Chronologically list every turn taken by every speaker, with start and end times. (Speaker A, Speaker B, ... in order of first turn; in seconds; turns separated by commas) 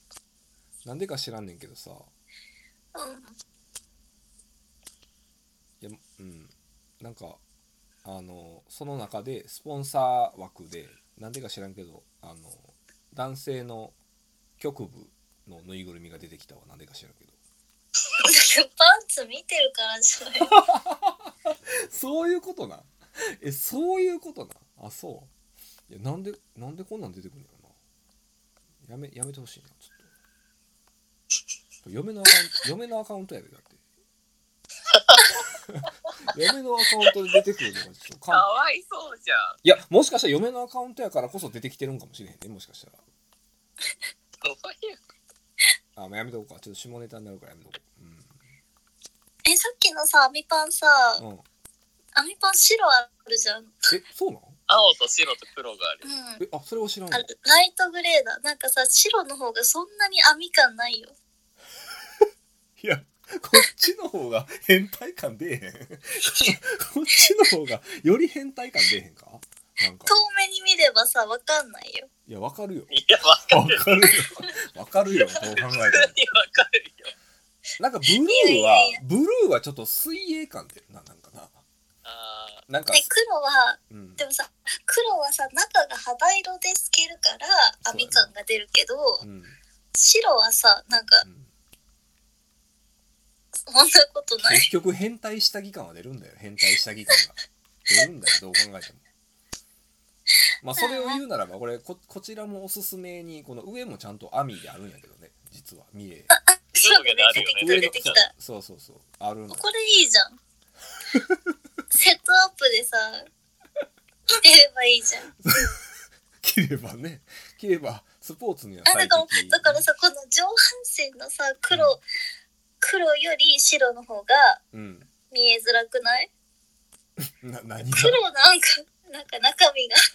Speaker A: 0.8-2.1, Speaker B: 2.9-3.3, Speaker A: 5.8-7.4, Speaker A: 8.0-13.9, Speaker A: 14.6-17.3, Speaker B: 18.2-20.6, Speaker A: 20.4-25.3, Speaker A: 25.9-27.7, Speaker A: 28.8-30.0, Speaker A: 31.8-33.8, Speaker C: 34.9-35.4, Speaker A: 35.7-38.5, Speaker C: 38.3-39.6, Speaker A: 39.6-43.0, Speaker C: 44.4-45.1, Speaker A: 46.0-48.3, Speaker B: 49.4-51.2, Speaker A: 51.2-51.4, Speaker B: 52.1-53.9, Speaker A: 53.9-54.5, Speaker C: 54.7-56.0, Speaker B: 56.0-56.4, Speaker A: 56.4-57.3, Speaker B: 57.1-61.1, Speaker A: 62.8-70.1, Speaker B: 70.1-72.1, Speaker A: 72.3-72.9, Speaker C: 72.9-74.3, Speaker A: 73.5-76.2, Speaker C: 75.1-77.1, Speaker A: 77.8-81.6, Speaker B: 78.1-79.0, Speaker C: 82.0-82.6, Speaker A: 82.7-83.1, Speaker B: 82.9-89.2, Speaker A: 83.9-84.2, Speaker A: 87.8-88.3, Speaker A: 89.2-89.6, Speaker B: 89.9-91.2, Speaker A: 91.2-91.5, Speaker B: 93.7-94.7, Speaker A: 94.4-99.0, Speaker A: 100.6-106.3, Speaker B: 100.8-101.2, Speaker B: 106.3-108.3, Speaker C: 106.7-108.2, Speaker A: 107.3-109.6, Speaker B: 109.5-110.4, Speaker A: 111.1-111.5, Speaker B: 111.9-113.3, Speaker B: 114.3-115.3, Speaker A: 115.4-115.8, Speaker A: 116.4-119.8, Speaker B: 118.8-122.0, Speaker A: 121.7-122.0, Speaker B: 122.8-124.6, Speaker A: 124.7-125.1, Speaker B: 125.3-126.3, Speaker A: 127.2-128.2, Speaker B: 127.9-130.0